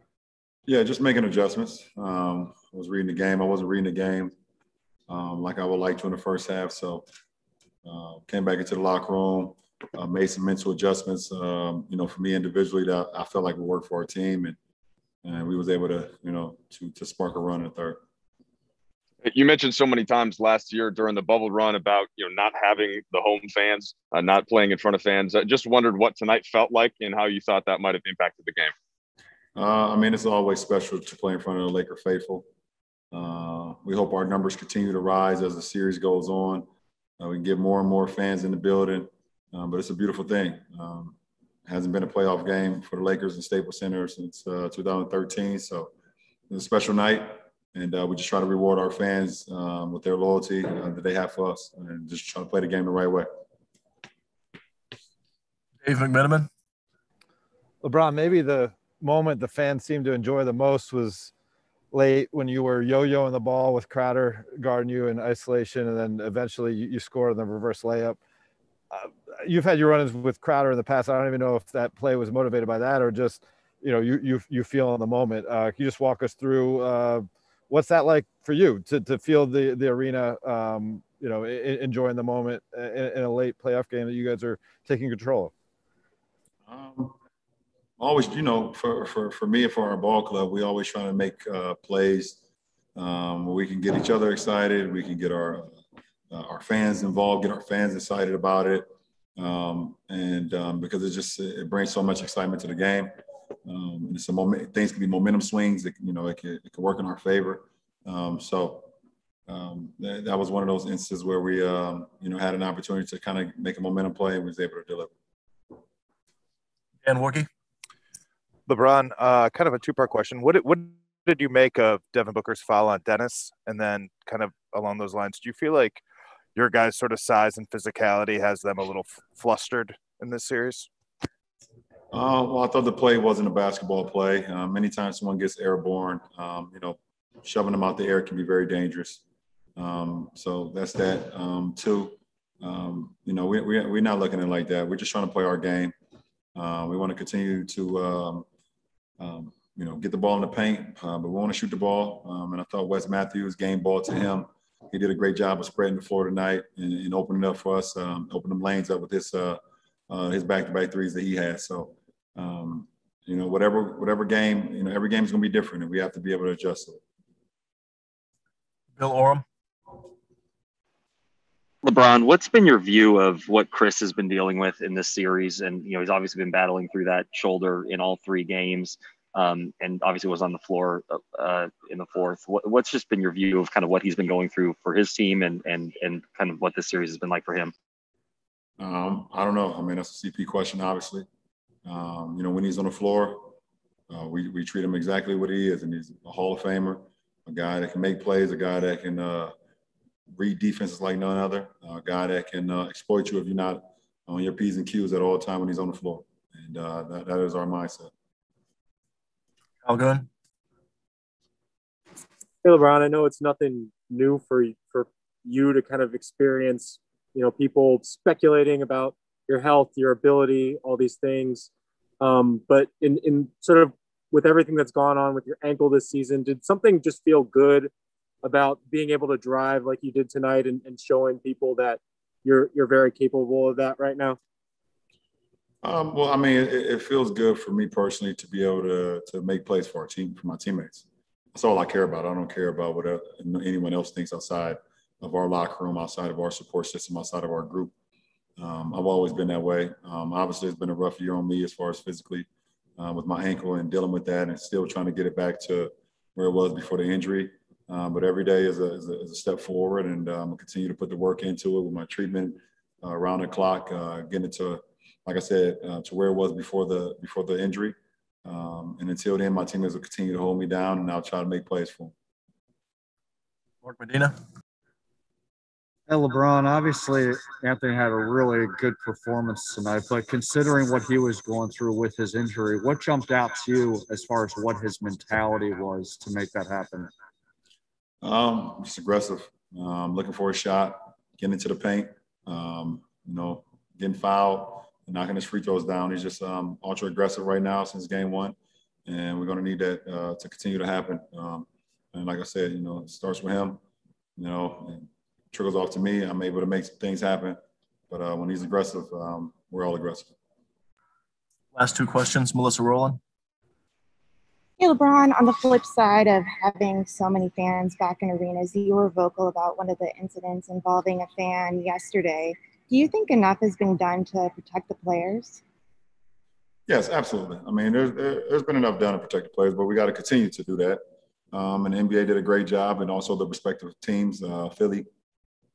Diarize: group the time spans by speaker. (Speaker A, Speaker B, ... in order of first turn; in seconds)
Speaker A: 0.7-4.3, 5.1-7.0, 7.8-14.6, 15.2-18.0, 29.6-32.5, 33.1-36.6, 37.2-41.1, 41.7-45.9, 46.5-53.3, 86.7-87.1, 88.0-92.4, 93.0-95.7, 96.3-103.1, 103.7-108.9, 109.5-115.1, 132.1-139.2, 139.8-145.9, 146.6-148.4, 149.2-167.0, 188.8-191.2, 191.8-193.6, 194.1-199.5, 200.3-208.1, 235.8-247.9, 248.6-252.5, 253.0-272.1, 288.2-298.5, 299.1-303.8, 304.4-307.6, 308.1-310.3, 326.9-331.0, 331.5-335.1
Speaker B: 19.2-28.7
Speaker C: 55.8-56.5, 117.0-117.5, 169.0-169.4, 209.8-210.3, 273.8-274.4, 311.7-313.2
Speaker D: 57.8-61.3, 61.9-68.2, 68.9-85.5
Speaker E: 118.7-126.0, 126.5-130.9
Speaker F: 171.8-187.7
Speaker G: 212.6-221.7, 222.2-227.9, 228.4-234.4
Speaker H: 276.1-287.1
Speaker I: 314.8-325.6